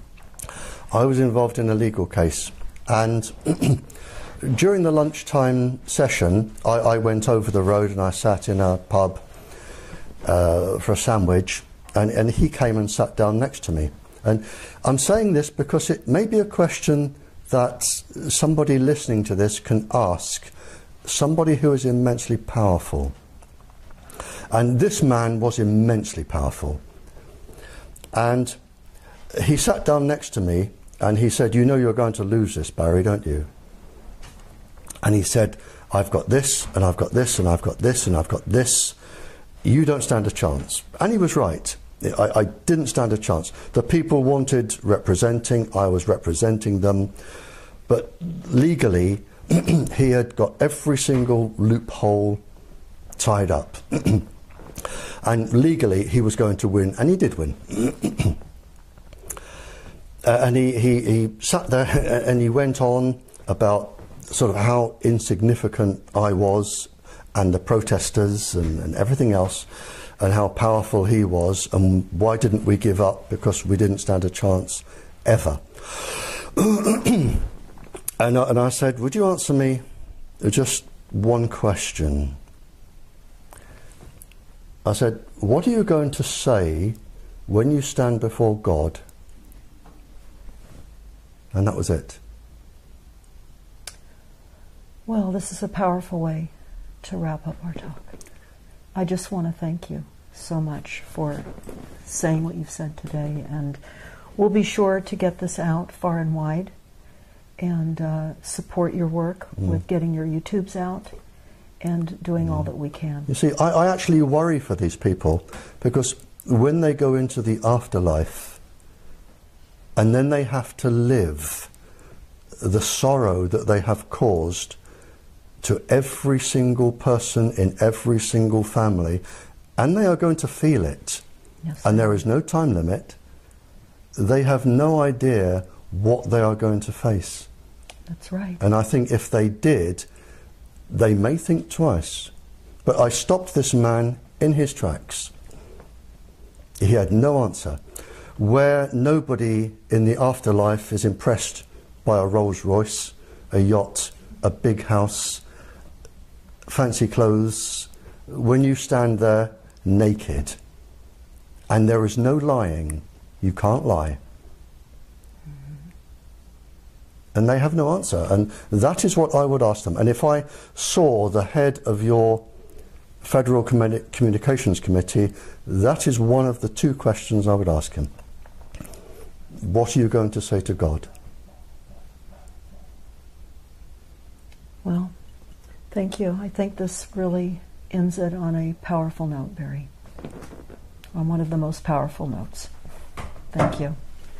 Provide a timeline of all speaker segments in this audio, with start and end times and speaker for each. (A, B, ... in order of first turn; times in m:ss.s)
0:00.9-0:03.9 A
0:04.4-0:09.2 A
0:10.2-0:20.5 A
0:21.0-0:23.1 A
0:24.5-0:26.8 A
0:28.1-0:28.6 A
0:29.3-0:33.5 A
0:35.0-0:39.0 A
0:39.6-0:47.1 A
0:47.9-0:52.4 A
0:53.2-0:54.3 A
0:55.2-0:58.4 A
1:00.2-1:09.7 A
1:10.2-1:17.5 A
1:18.2-1:19.8 A
1:20.4-1:22.4 A
1:24.8-1:29.0 A
1:31.5-1:32.2 A
1:35.1-1:36.5 B
1:37.0-1:38.1 B
1:39.0-1:41.5 B
1:42.0-1:43.8 B
1:44.4-1:46.7 B
1:47.6-1:51.1 B
1:51.8-1:53.3 B
1:53.3-1:58.6 A
2:00.0-2:01.7 A
2:02.6-2:04.8 A
2:05.6-2:09.2 A
2:09.8-2:11.2 A
2:11.7-2:12.1 B
2:11.8-2:13.2 A
2:14.2-2:17.5 A
2:18.1-2:18.6 B
2:18.6-2:20.1 A
2:20.9-2:22.3 A
2:22.8-2:25.3 A
2:26.8-2:27.8 A
2:28.4-2:35.4 A
2:36.7-2:40.6 A
2:41.7-2:44.2 A
2:47.3-2:52.5 A
2:53.2-2:58.1 A
2:59.6-3:01.1 A
3:04.8-3:05.1 B
3:05.9-3:09.9 B
3:11.2-3:12.7 B
3:13.5-3:14.0 B